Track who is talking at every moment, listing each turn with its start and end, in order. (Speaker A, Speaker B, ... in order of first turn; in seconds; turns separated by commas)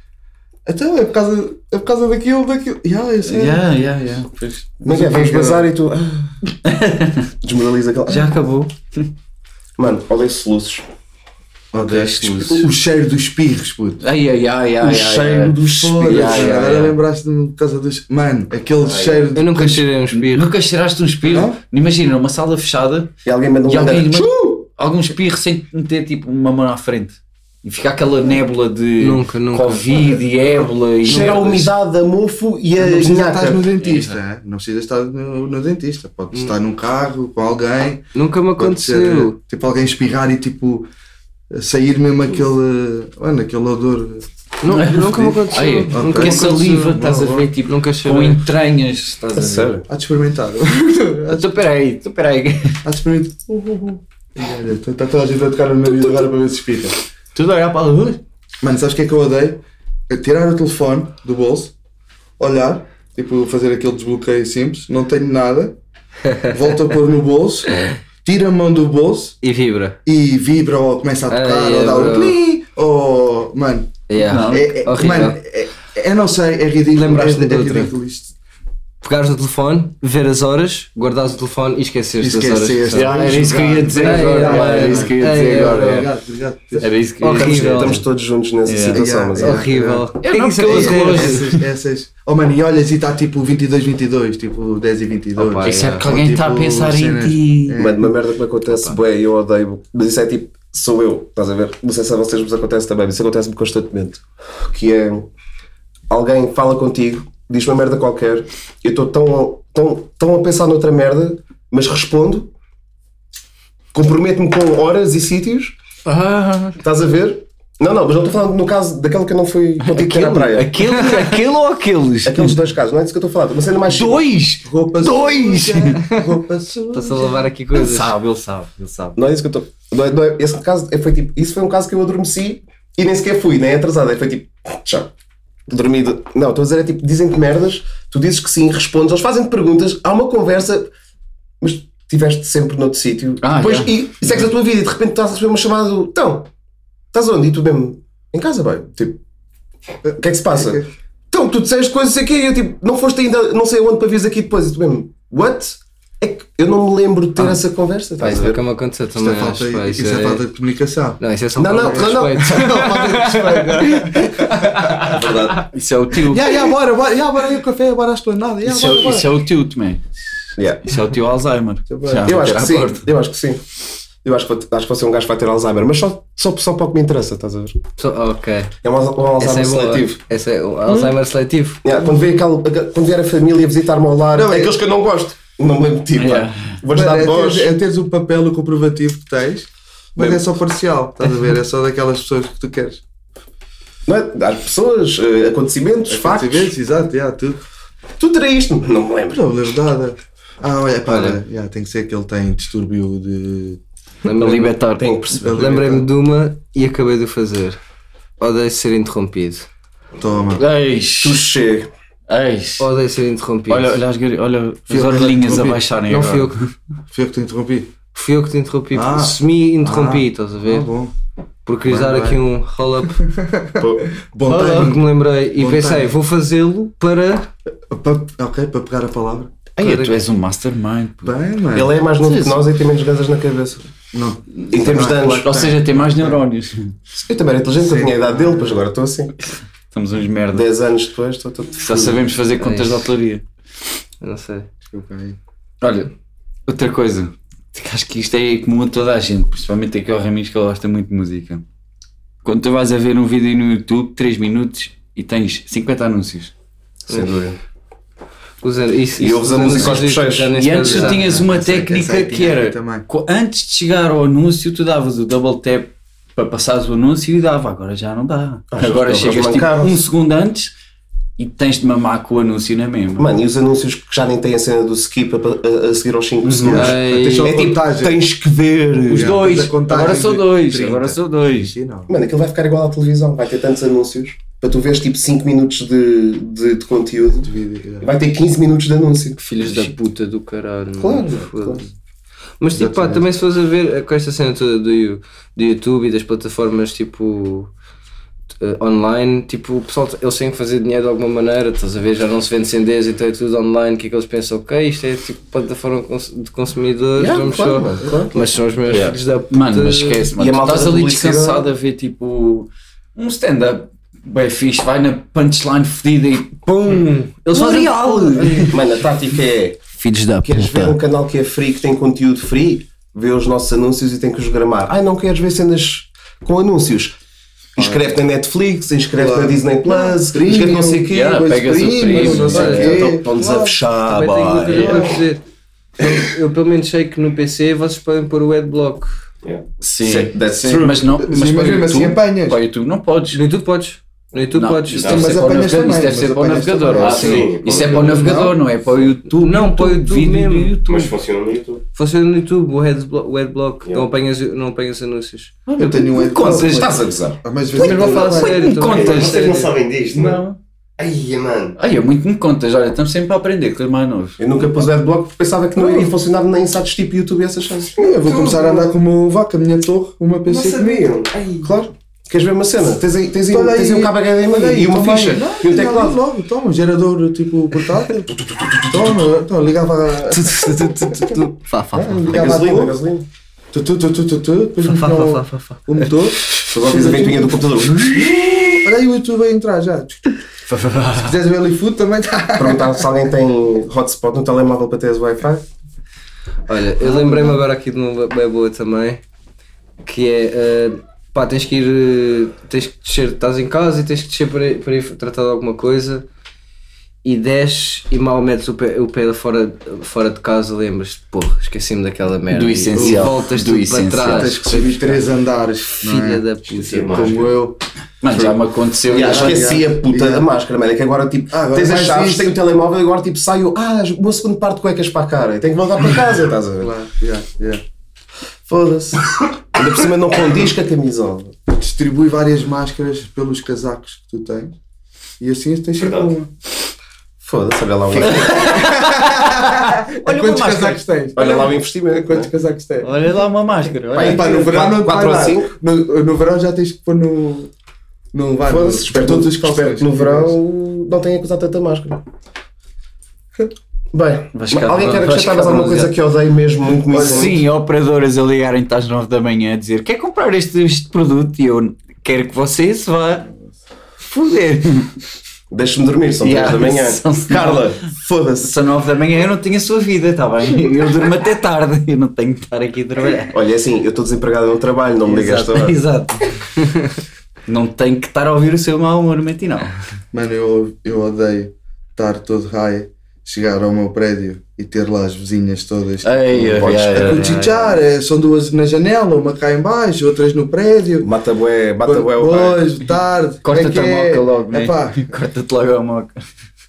Speaker A: 0.7-3.6, Speaker B: 3.2-4.7, Speaker A: 4.8-5.7, Speaker C: 4.8-6.4, Speaker B: 6.6-7.2, Speaker C: 7.4-8.4, Speaker B: 8.1-9.1, Speaker C: 9.8-10.8, Speaker A: 11.7-14.0, Speaker B: 11.7-12.7, Speaker C: 12.0-12.7, Speaker B: 14.0-17.0, Speaker C: 14.8-16.7, Speaker A: 15.8-19.9, Speaker D: 19.3-20.5, Speaker B: 20.1-23.1, Speaker A: 21.3-21.6, Speaker C: 23.2-24.6, Speaker B: 23.7-31.7, Speaker D: 29.0-30.0, Speaker C: 31.0-33.6, Speaker A: 32.8-40.9, Speaker B: 33.8-34.1, Speaker D: 38.1-39.4, Speaker A: 41.5-44.3, Speaker D: 44.6-47.1, Speaker B: 44.7-49.7, Speaker A: 45.0-45.4, Speaker A: 45.9-47.5, Speaker D: 47.6-48.4, Speaker C: 49.3-49.8, Speaker A: 49.9-51.5, Speaker B: 51.3-52.8, Speaker A: 52.8-57.0, Speaker B: 57.3-58.2, Speaker A: 58.6-61.7, Speaker A: 62.4-65.8, Speaker D: 66.2-66.6, Speaker A: 66.5-69.3, Speaker D: 69.4-70.0, Speaker A: 70.0-78.3, Speaker D: 71.3-72.4, Speaker D: 74.1-75.4, Speaker B: 74.2-74.7, Speaker D: 76.9-77.9, Speaker D: 79.0-86.0, Speaker A: 82.2-86.9, Speaker B: 82.9-86.1, Speaker B: 86.8-88.0, Speaker D: 87.2-88.0, Speaker C: 87.3-89.6, Speaker B: 88.6-89.0, Speaker A: 88.9-90.1, Speaker D: 89.3-91.5, Speaker B: 90.2-91.6, Speaker A: 90.6-98.2, Speaker D: 95.3-96.1, Speaker B: 95.6-97.8, Speaker C: 97.8-105.3, Speaker C: 106.1-112.5, Speaker C: 113.9-115.8, Speaker B: 116.0-116.8, Speaker C: 116.8-120.9, Speaker B: 119.8-122.6, Speaker D: 120.9-121.2, Speaker C: 122.2-124.3, Speaker B: 123.9-126.0, Speaker A: 124.6-127.4, Speaker D: 126.9-128.1, Speaker B: 127.7-129.2, Speaker C: 129.2-135.1, Speaker C: 135.7-140.9, Speaker C: 141.6-146.5, Speaker B: 143.4-144.4, Speaker C: 147.1-149.2, Speaker A: 150.0-150.9, Speaker C: 150.2-158.6, Speaker D: 158.2-160.4, Speaker A: 159.2-161.2, Speaker D: 161.2-165.2, Speaker C: 161.6-164.1, Speaker A: 161.8-164.7, Speaker C: 165.0-165.7, Speaker B: 165.6-166.7, Speaker A: 166.2-169.3, Speaker B: 168.6-170.0, Speaker C: 170.6-170.8, Speaker B: 170.8-173.1, Speaker A: 171.9-172.3, Speaker C: 172.2-173.6, Speaker C: 174.2-177.8, Speaker D: 178.0-178.7, Speaker C: 178.8-180.2, Speaker D: 179.4-181.8, Speaker C: 181.8-187.7, Speaker A: 184.3-184.8, Speaker B: 186.2-186.8, Speaker A: 186.9-193.0, Speaker C: 194.1-196.7, Speaker A: 196.1-197.6, Speaker C: 198.2-199.4, Speaker A: 199.3-203.8, Speaker D: 201.1-201.4, Speaker D: 204.2-204.8, Speaker B: 204.3-205.1, Speaker C: 205.0-205.9, Speaker A: 205.4-206.0, Speaker D: 205.5-207.8, Speaker D: 208.4-209.7, Speaker A: 210.2-210.6, Speaker B: 210.5-211.5, Speaker C: 211.2-211.9, Speaker B: 212.3-212.9, Speaker D: 212.8-214.0, Speaker B: 213.7-216.6, Speaker A: 214.9-215.8, Speaker D: 216.1-216.6, Speaker A: 217.1-217.9, Speaker D: 218.1-220.9, Speaker A: 218.9-221.1, Speaker D: 221.7-223.2, Speaker A: 221.8-222.4, Speaker A: 223.2-226.1, Speaker C: 223.8-224.1, Speaker D: 224.4-227.5, Speaker A: 227.9-229.5, Speaker B: 229.8-231.3, Speaker D: 229.8-230.2, Speaker A: 231.2-231.9, Speaker C: 231.7-233.9, Speaker B: 232.2-232.7, Speaker A: 234.1-235.7, Speaker B: 234.6-236.9, Speaker C: 234.7-235.7, Speaker C: 237.2-239.3, Speaker A: 237.8-238.8, Speaker B: 239.9-240.7, Speaker C: 240.5-242.2, Speaker B: 241.8-243.4, Speaker D: 242.6-243.1, Speaker D: 244.2-244.7, Speaker A: 244.9-245.4, Speaker B: 245.8-246.1, Speaker B: 246.7-251.6, Speaker B: 252.4-256.5, Speaker C: 257.1-257.6, Speaker D: 258.6-261.9, Speaker C: 259.2-260.5, Speaker B: 260.5-270.7, Speaker A: 260.8-263.0, Speaker C: 268.7-270.0, Speaker B: 271.4-273.3, Speaker C: 273.2-279.4, Speaker A: 276.5-278.2, Speaker D: 276.7-277.6, Speaker B: 279.1-281.7, Speaker A: 279.1-282.1, Speaker C: 282.1-289.4, Speaker A: 287.4-288.1, Speaker D: 289.4-291.9, Speaker B: 289.6-289.9, Speaker C: 291.0-291.9, Speaker D: 292.6-297.7, Speaker A: 292.7-293.3, Speaker D: 298.6-310.3, Speaker C: 307.1-308.4, Speaker B: 308.9-318.8, Speaker C: 310.4-311.7, Speaker D: 316.8-318.8, Speaker C: 318.7-319.8, Speaker B: 320.0-320.9, Speaker C: 320.4-327.2, Speaker C: 327.8-335.1, Speaker A: 327.8-328.1, Speaker A: 329.1-333.7, Speaker B: 331.1-333.1, Speaker D: 332.1-335.4, Speaker A: 334.7-335.2, Speaker D: 336.0-339.1, Speaker B: 339.8-343.4, Speaker C: 340.0-341.0, Speaker A: 341.2-342.6, Speaker D: 343.3-345.2, Speaker B: 344.5-351.1, Speaker E: 345.0-345.3, Speaker A: 345.0-348.6, Speaker E: 347.0-348.2, Speaker D: 349.3-350.7, Speaker E: 350.8-351.8, Speaker D: 351.9-355.6, Speaker B: 355.7-357.1, Speaker A: 355.8-358.6, Speaker C: 356.4-357.4, Speaker B: 357.7-359.4, Speaker D: 357.7-359.8, Speaker E: 358.8-360.5, Speaker B: 360.1-360.6, Speaker E: 361.0-361.8, Speaker B: 361.8-364.4, Speaker C: 364.4-368.9, Speaker A: 368.0-371.1, Speaker C: 370.5-370.9, Speaker E: 370.5-371.6, Speaker C: 371.6-376.2, Speaker A: 373.5-380.6, Speaker D: 380.3-382.4, Speaker C: 381.9-383.2, Speaker A: 382.2-383.0, Speaker A: 383.7-388.1, Speaker D: 384.9-386.1, Speaker C: 386.7-388.8, Speaker A: 388.7-390.3, Speaker B: 390.7-391.3, Speaker A: 391.1-393.0, Speaker C: 392.6-395.6, Speaker D: 396.7-399.2, Speaker D: 400.0-406.2, Speaker D: 407.2-415.3, Speaker B: 412.5-414.6, Speaker A: 412.9-413.3, Speaker A: 414.2-416.4, Speaker D: 416.0-417.4, Speaker E: 416.7-417.5, Speaker A: 417.0-418.5, Speaker B: 418.2-419.7, Speaker A: 419.1-420.5, Speaker C: 419.1-426.9, Speaker A: 421.5-422.6, Speaker A: 426.8-427.8, Speaker C: 428.6-431.6, Speaker A: 431.7-434.7, Speaker A: 435.4-436.5, Speaker E: 436.0-436.3, Speaker C: 437.4-438.8, Speaker A: 438.1-443.2, Speaker B: 438.2-441.6, Speaker C: 441.4-442.5, Speaker B: 443.0-444.7, Speaker C: 444.1-445.7, Speaker A: 444.1-447.7, Speaker A: 448.3-450.6, Speaker C: 448.6-452.2, Speaker C: 454.1-457.6, Speaker B: 454.5-456.1, Speaker A: 457.1-457.6, Speaker B: 457.1-463.5, Speaker B: 464.3-465.1, Speaker C: 465.7-468.6, Speaker B: 466.4-473.5, Speaker C: 473.5-476.0, Speaker B: 475.3-476.4, Speaker D: 476.8-477.0, Speaker B: 477.7-479.9, Speaker A: 480.3-491.3, Speaker B: 486.2-487.7, Speaker C: 486.7-487.7, Speaker C: 491.2-492.8, Speaker A: 492.0-495.2, Speaker B: 493.6-496.4